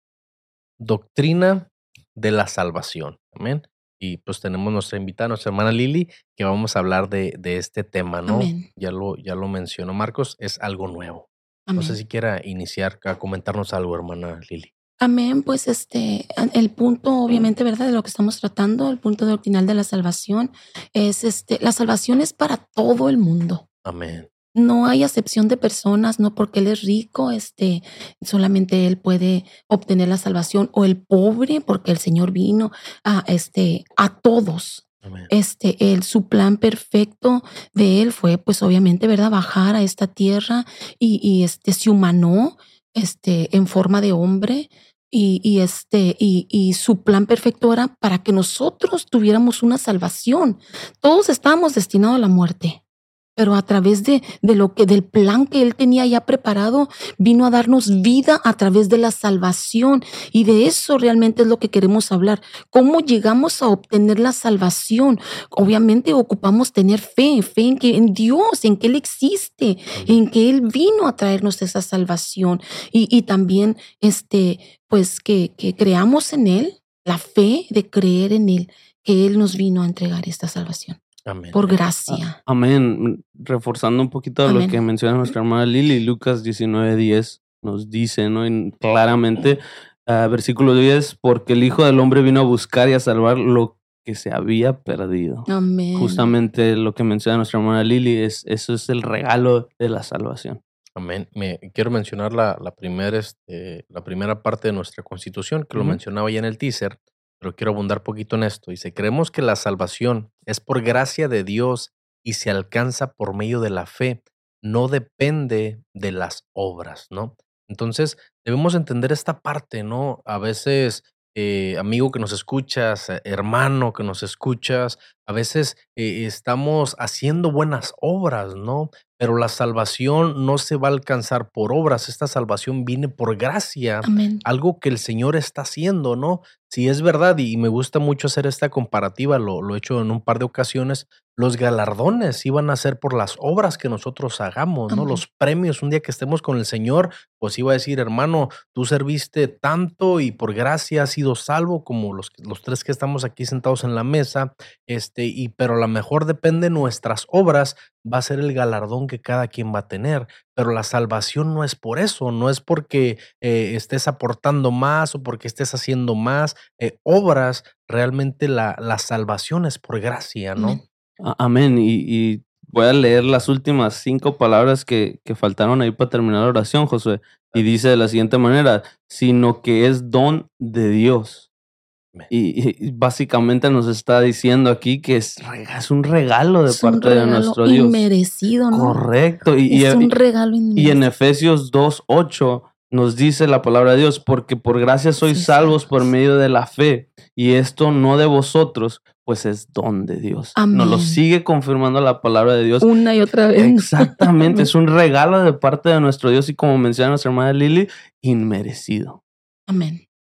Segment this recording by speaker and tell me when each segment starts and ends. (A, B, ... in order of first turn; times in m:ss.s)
0:00.8-0:14.7 A
0:08.3-0:08.7 B
0:11.7-0:12.0 B
0:15.0-0:23.6 B
0:23.8-0:24.3 A
0:24.5-0:52.8 B
0:35.0-0:35.3 A
0:53.4-1:21.0 B
1:09.9-1:10.2 A
1:21.2-1:21.8 A
1:21.5-1:22.4 B
1:22.1-1:40.6 C
1:24.4-1:24.8 B
1:35.5-1:36.3 B
1:41.0-2:50.8 A
2:14.0-2:14.4 B
2:24.9-2:25.2 B
2:50.6-2:50.8 B
2:51.2-3:01.4 C
3:02.3-3:08.0 C
3:06.7-3:09.0 B
3:08.7-3:10.1 C
3:09.7-3:11.0 B
3:10.8-3:22.9 C
3:15.2-3:16.0 B
3:20.5-3:21.2 B
3:22.8-3:24.7 B
3:23.6-3:29.2 C
3:29.7-3:30.0 B